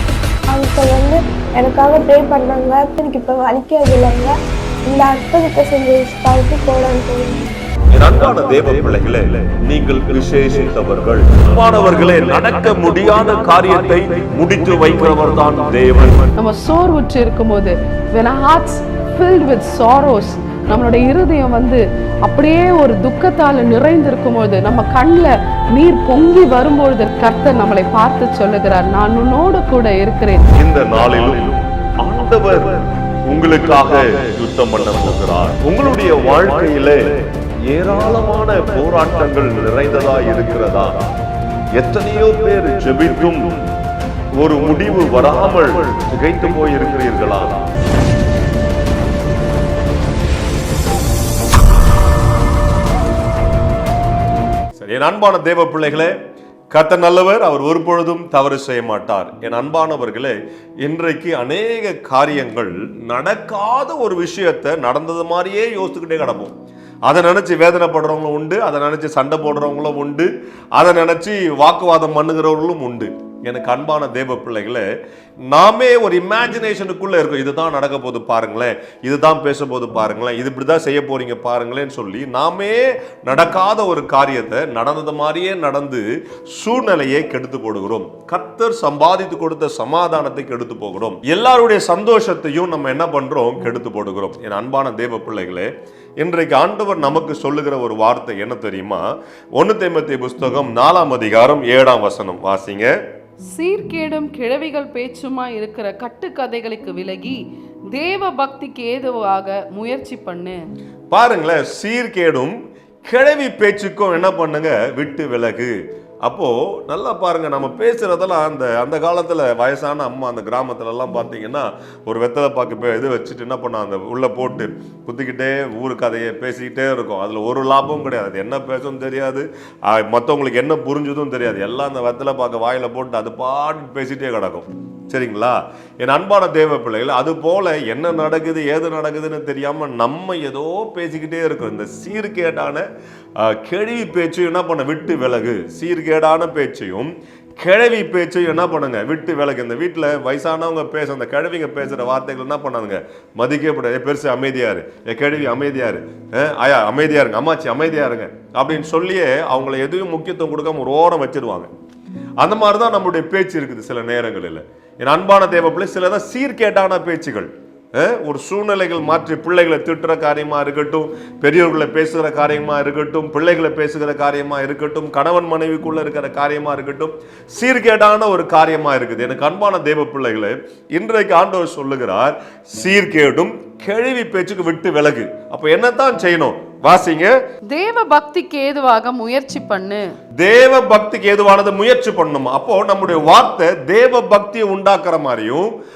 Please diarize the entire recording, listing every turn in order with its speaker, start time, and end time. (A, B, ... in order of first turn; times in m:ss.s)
0:00.5-0:04.3 A
0:04.8-0:07.4 A
0:07.9-0:16.3 B
0:16.4-0:30.5 C
0:30.5-0:41.0 B
0:41.8-0:43.6 B
0:44.3-0:47.7 B
0:54.8-0:56.2 B
0:56.7-1:06.5 B
1:07.0-1:14.9 B
1:15.4-1:43.0 B
1:43.5-1:50.6 C
1:51.1-2:22.8 B
2:23.4-2:41.7 B
2:42.4-3:07.4 B
3:07.7-3:10.1 C
3:10.4-3:15.7 B